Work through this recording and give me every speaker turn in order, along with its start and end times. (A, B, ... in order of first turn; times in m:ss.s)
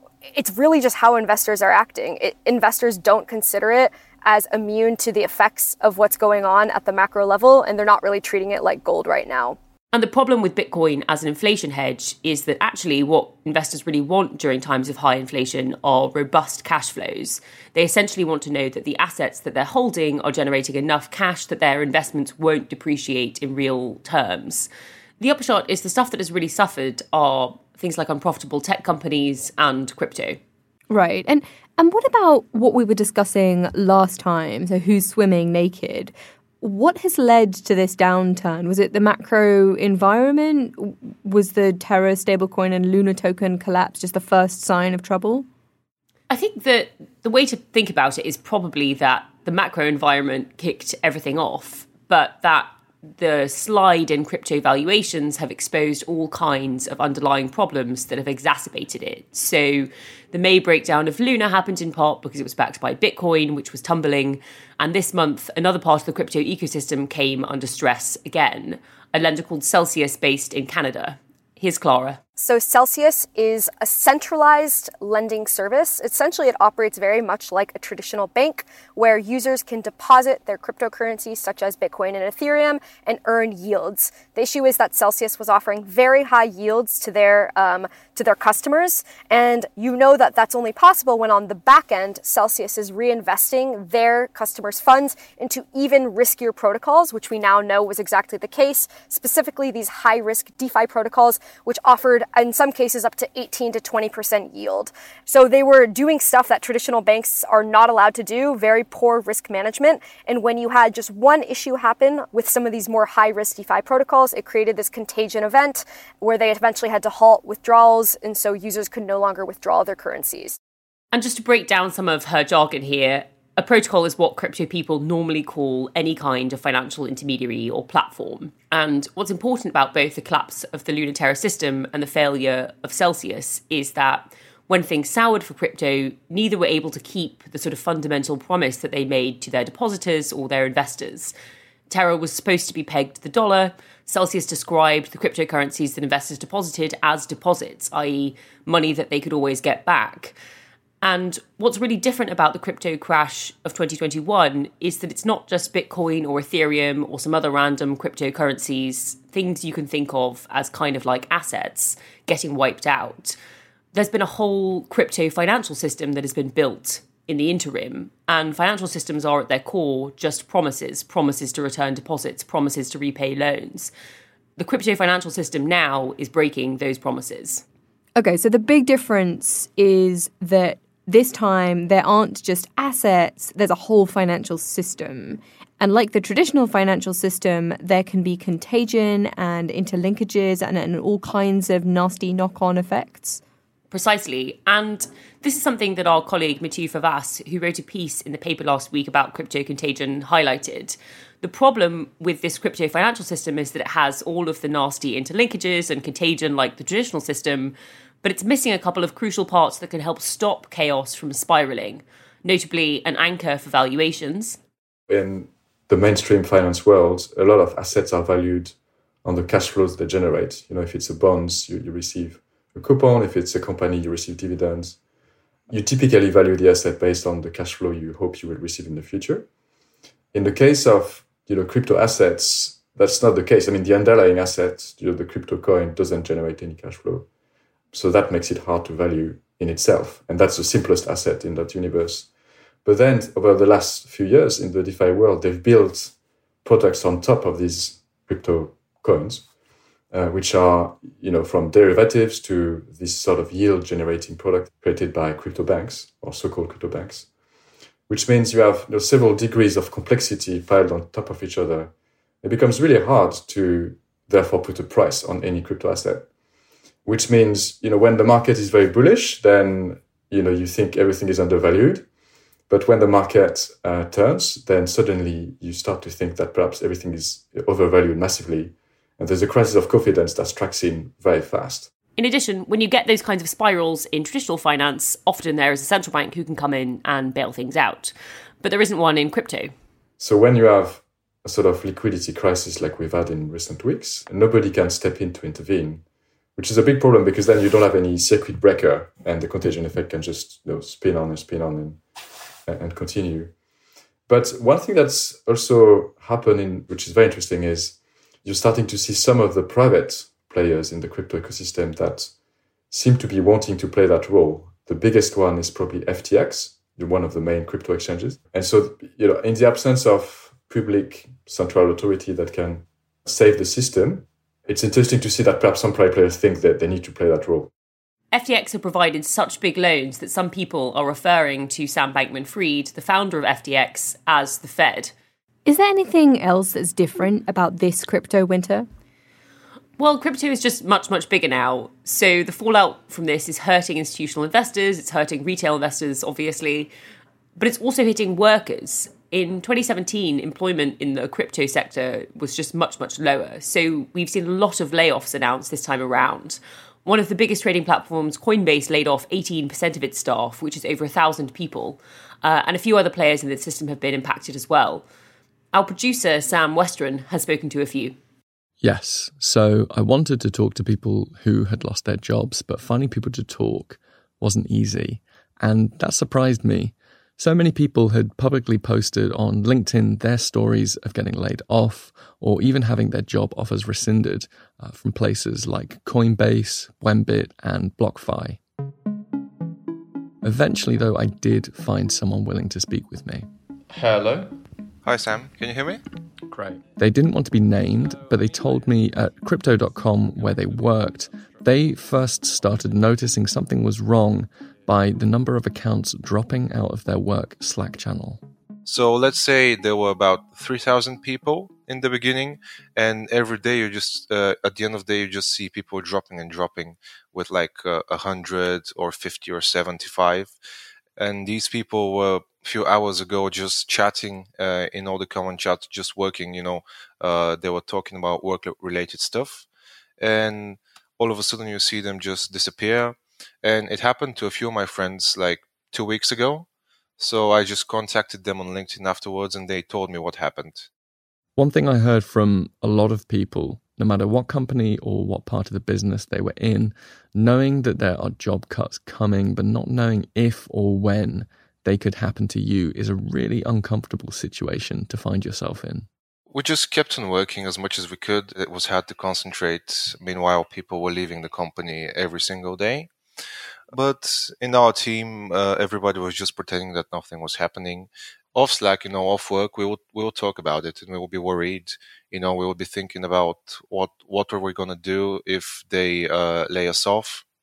0:00.3-0:09.6 A
0:09.9-0:24.7 B
0:25.2-0:30.4 B
0:30.9-0:45.5 C
0:46.3-1:12.2 B
1:12.4-2:00.6 A
2:01.1-2:21.3 B
2:21.9-2:30.4 B
2:31.0-2:43.4 B
2:43.9-2:53.9 B
2:54.6-2:57.6 B
2:58.2-3:13.4 C
3:13.9-3:34.6 B
3:35.1-3:45.0 D
3:45.7-3:49.5 D
3:50.3-3:57.3 D
3:57.9-4:02.3 D
4:02.8-4:09.5 D
4:10.1-4:17.3 D
4:18.1-4:26.3 D
4:27.0-4:32.1 D
4:32.7-4:41.9 D
4:42.2-4:49.7 B
4:50.2-4:56.0 D
4:56.6-5:02.0 D
5:02.7-5:03.6 D
5:04.3-5:12.3 D
5:12.9-5:27.7 D
5:28.3-5:35.1 B
5:35.7-5:38.9 C
5:40.0-5:46.9 B
5:47.6-6:05.0 B
6:05.7-6:08.2 B
6:08.8-6:28.6 E
6:30.4-6:33.5 E
6:35.0-6:36.0 F
6:37.0-6:48.4 E
6:48.9-7:00.6 F
7:01.2-7:09.7 F
7:10.2-7:16.7 F
7:17.2-7:20.9 F
7:21.6-7:36.1 E
7:36.5-7:43.1 F
7:43.9-7:57.4 F